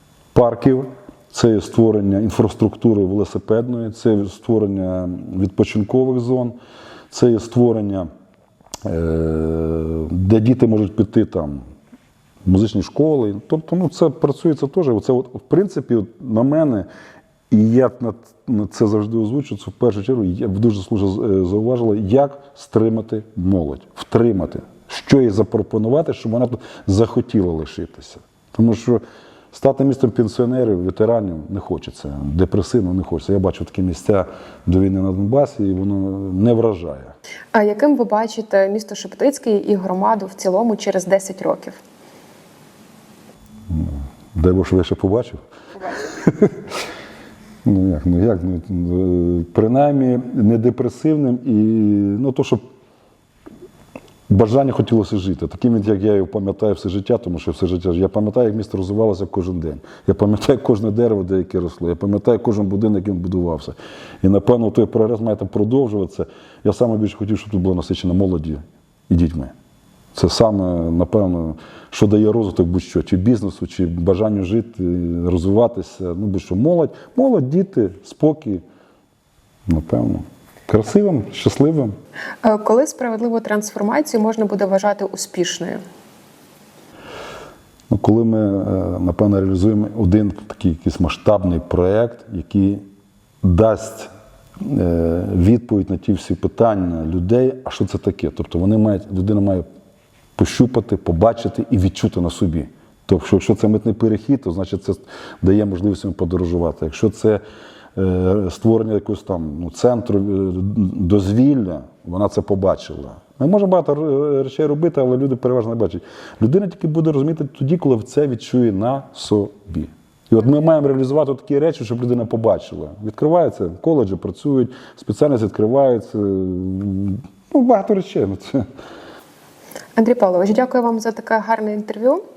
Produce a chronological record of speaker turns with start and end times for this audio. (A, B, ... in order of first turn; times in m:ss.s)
0:00.3-0:06.6 A
0:07.1-0:08.1 A
0:08.8-0:11.6 A
0:12.4-0:16.9 A
0:17.5-0:29.0 A
0:29.5-0:37.1 A
0:37.5-0:41.8 B
0:43.7-0:45.4 A
0:46.2-0:46.6 A
0:47.6-0:52.6 A
0:54.3-1:09.5 A
1:10.1-1:18.6 A
1:19.7-1:21.9 A
1:22.4-1:25.8 B
1:27.9-1:32.8 A
1:33.4-1:39.6 A
1:40.4-1:47.4 A
1:47.9-2:08.6 A
2:10.0-2:12.2 B